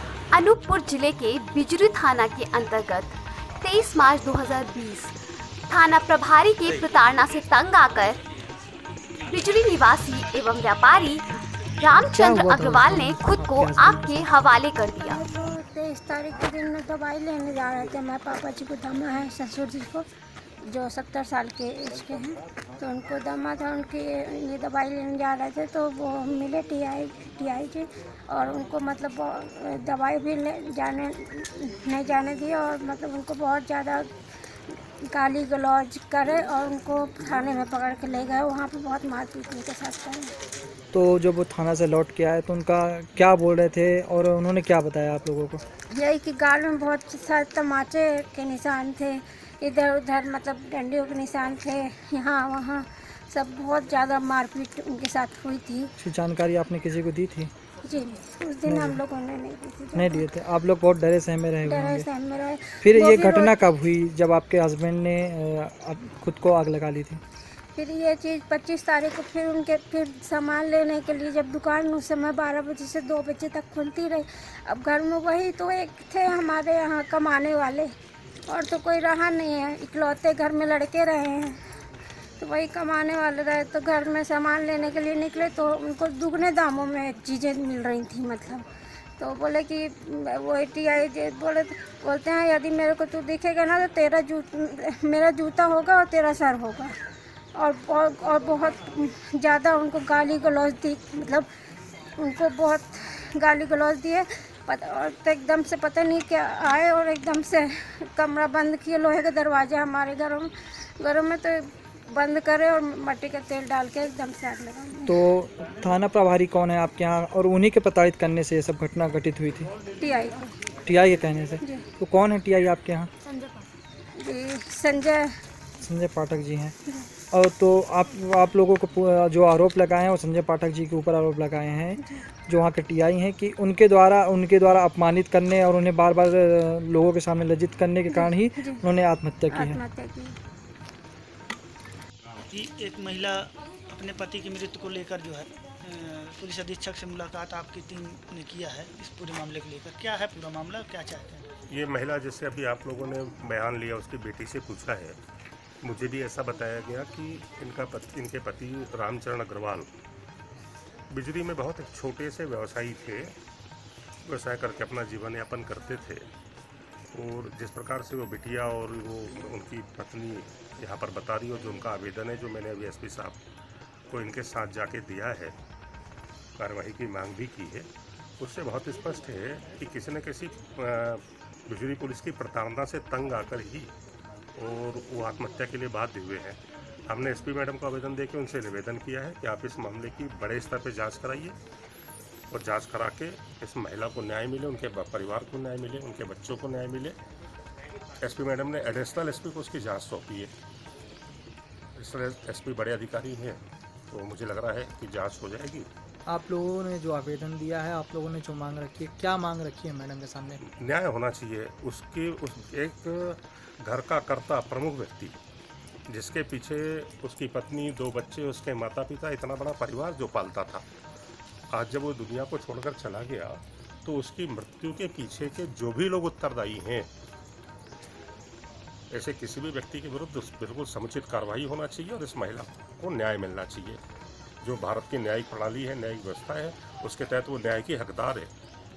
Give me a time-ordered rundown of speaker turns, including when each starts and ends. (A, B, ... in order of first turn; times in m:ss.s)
0:00.3-0:05.1 A
0:05.7-0:08.2 A
0:09.3-0:15.2 A
0:12.1-0:14.3 B
0:15.0-0:20.0 C
0:20.6-0:34.1 C
0:35.0-0:40.3 C
0:40.9-0:45.6 B
0:45.9-0:55.9 C
0:56.0-0:57.5 B
0:57.8-1:00.2 C
0:58.7-0:59.0 B
0:59.9-1:02.1 B
1:01.6-1:03.6 C
1:02.8-1:07.2 B
1:07.8-1:17.9 C
1:18.5-1:21.6 C
1:22.4-1:28.6 C
1:29.2-1:36.9 C
1:37.6-1:41.5 C
1:42.2-1:55.1 C
1:55.0-1:59.7 B
2:00.0-2:00.5 C
2:00.8-2:03.1 B
2:04.2-2:05.3 C
2:05.8-2:06.7 B
2:07.3-2:19.8 B
2:18.1-2:18.8 C
2:19.5-2:20.3 C
2:22.5-2:31.4 D
2:31.7-2:35.2 E
2:35.8-2:39.9 E
2:41.1-2:43.3 E
2:44.2-2:46.3 E
2:47.1-2:53.4 E
2:54.1-2:55.5 E
2:56.6-2:57.9 E
2:58.4-3:03.9 E
3:04.6-3:11.6 E
3:12.5-3:17.2 E
3:18.2-3:20.5 E
3:22.0-3:25.9 E
3:26.3-3:30.6 B
3:30.7-3:35.4 E
3:36.1-3:40.8 E
3:41.7-3:47.1 E
3:49.1-3:54.0 E
3:54.6-3:58.5 E